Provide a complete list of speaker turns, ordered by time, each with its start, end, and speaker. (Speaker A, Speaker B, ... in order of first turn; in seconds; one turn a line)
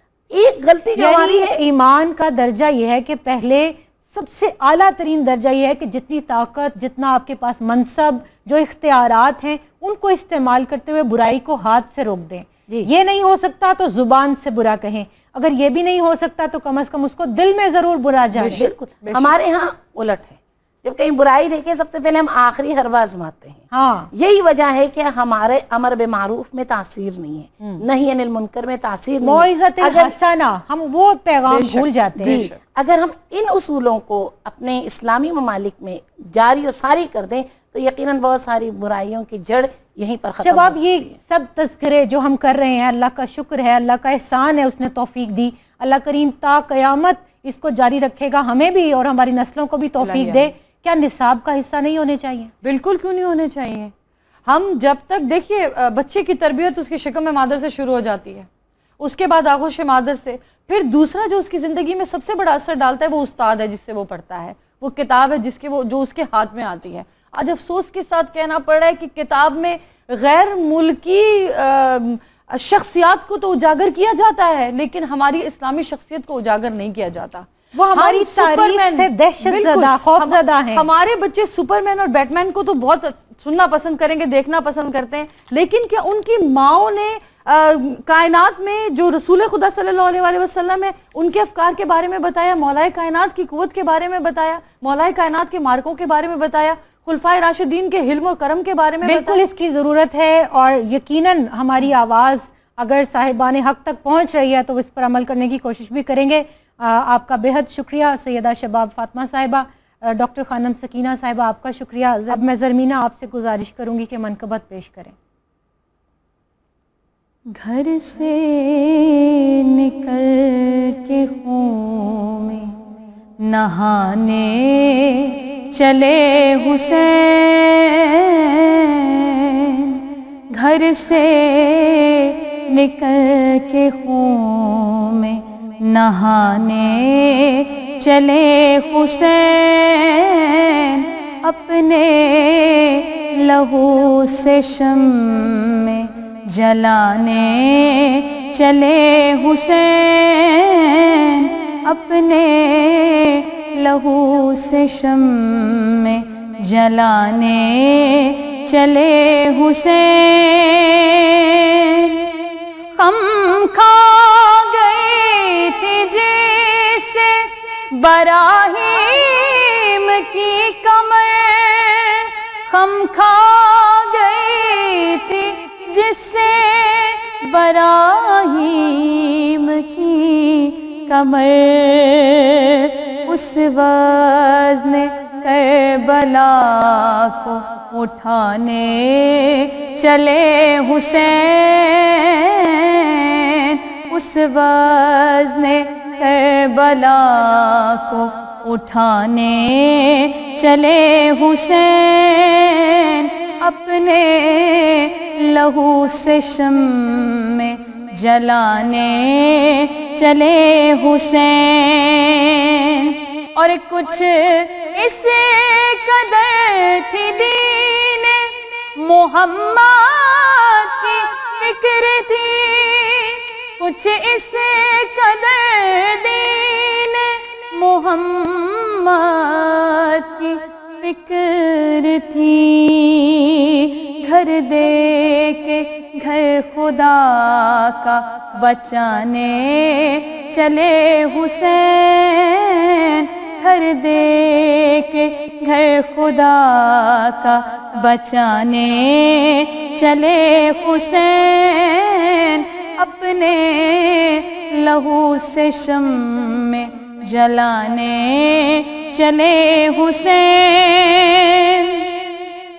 Speaker A: 0.3-1.6
Speaker B: 1.0-18.6
Speaker A: 18.4-30.1
Speaker C: 18.5-19.3
Speaker B: 23.7-24.1
Speaker B: 29.2-32.4
Speaker C: 31.5-32.5
Speaker A: 32.2-41.1
Speaker B: 40.4-52.5
Speaker C: 50.0-50.5
Speaker C: 52.6-53.9
Speaker C: 54.5-58.5
Speaker C: 59.0-99.4
Speaker B: 77.7-80.8
Speaker B: 99.0-115.1
Speaker D: 117.5-122.7
Speaker D: 123.4-130.0
Speaker D: 130.5-162.2
Speaker D: 162.9-262.1